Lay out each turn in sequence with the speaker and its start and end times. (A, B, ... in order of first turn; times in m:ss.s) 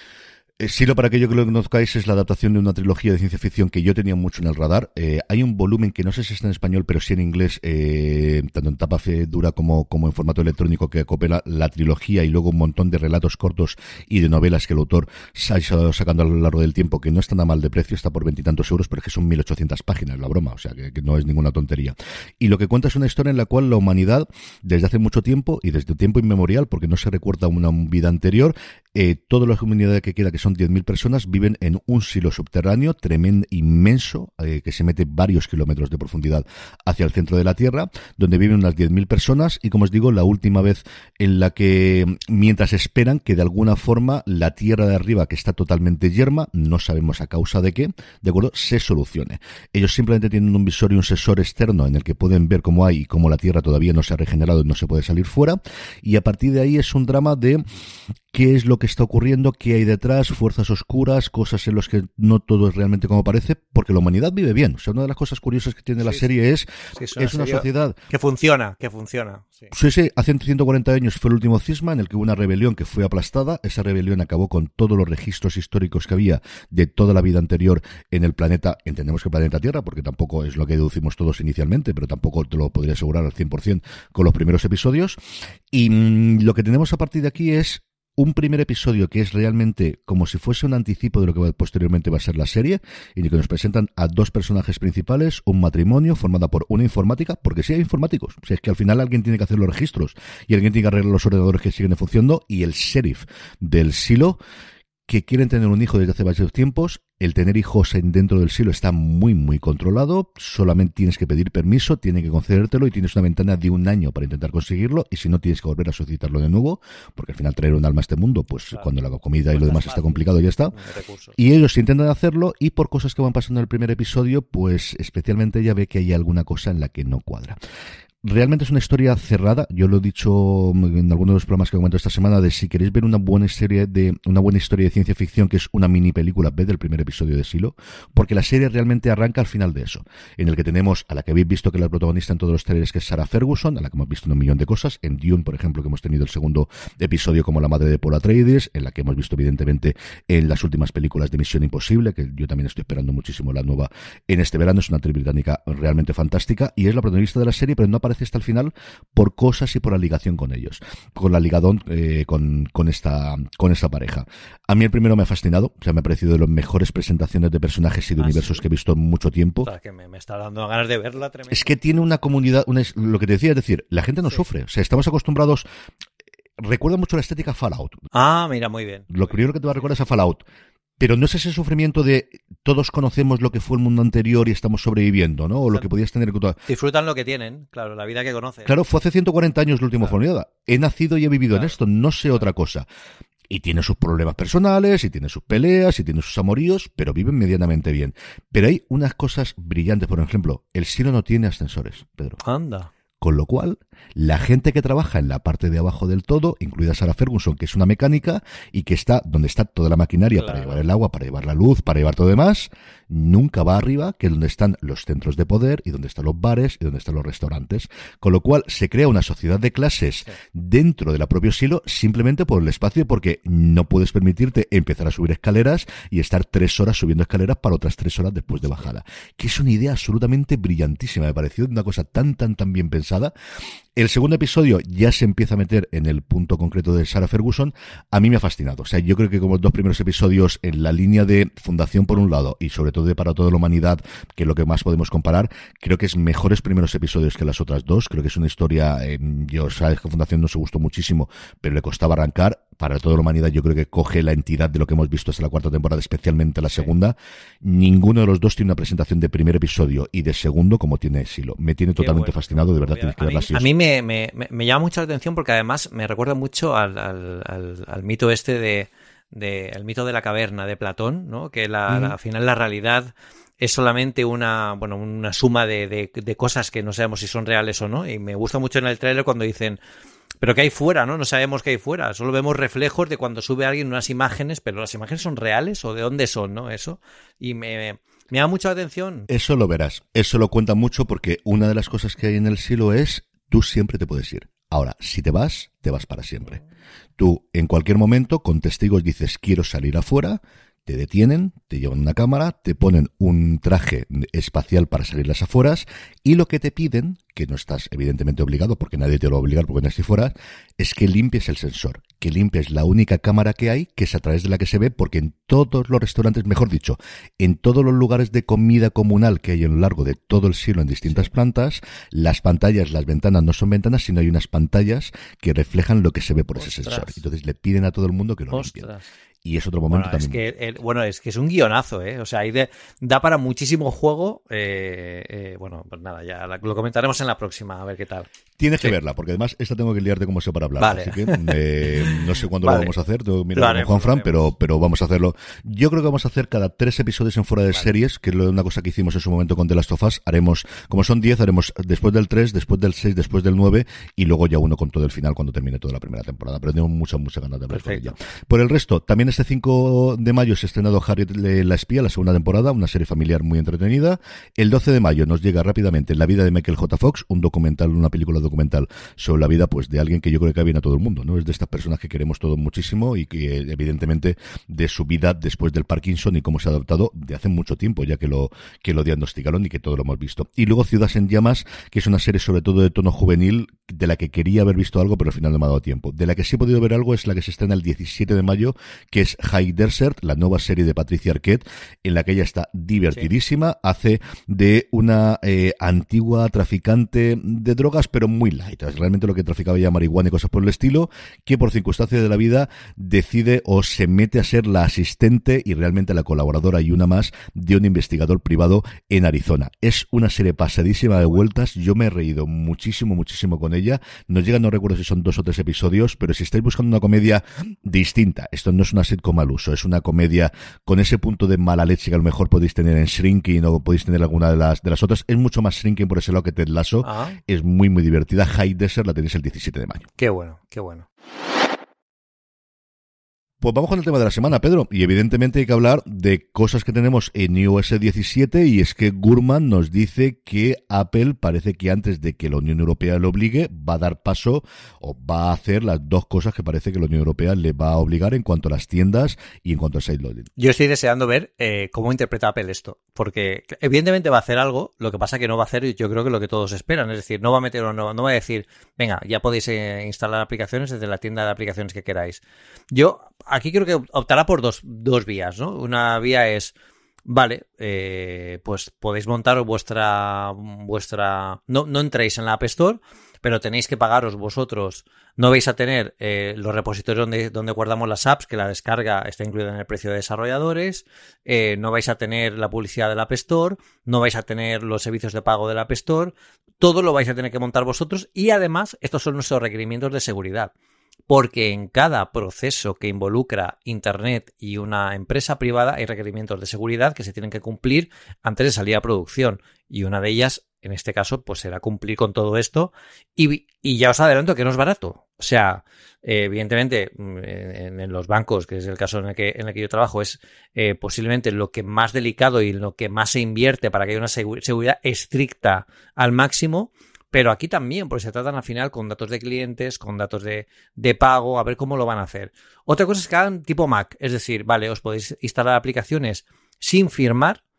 0:00.6-0:57.6 A
0:58.3-1:08.0 A
1:07.0-1:09.7 B
1:09.7-1:25.2 A
1:25.7-1:44.4 A
1:45.1-2:00.7 A
1:59.5-2:01.4 B
2:01.4-2:07.6 A
2:08.2-2:49.7 A
2:48.2-2:48.6 B
2:49.6-2:51.7 B
2:51.5-2:55.6 A
2:56.6-2:58.0 A
2:58.1-2:59.1 B
2:59.1-3:00.4 A
3:01.0-3:06.6 A
3:06.7-3:08.8 B
3:08.6-3:12.9 A
3:13.5-3:22.4 A
3:22.4-3:22.9 B
3:23.2-3:53.3 A
3:30.4-3:30.8 B
3:54.0-4:23.7 A
4:22.0-4:39.8 B
4:31.9-4:32.1 A
4:40.4-4:49.3 B
4:49.3-4:56.6 A
4:57.2-5:28.9 A
5:26.6-5:27.2 B
5:28.5-5:29.0 B
5:29.4-5:30.4 A
5:29.9-5:38.3 B
5:38.6-7:10.1 A
5:40.8-5:42.9 B
5:43.6-5:44.5 B
5:57.7-5:58.1 B
7:07.0-7:07.4 B
7:10.2-7:11.1 B
7:13.6-7:30.5 A
7:30.6-7:42.4 B
7:42.9-7:46.7 B
7:47.3-8:10.7 B
8:11.3-8:47.6 B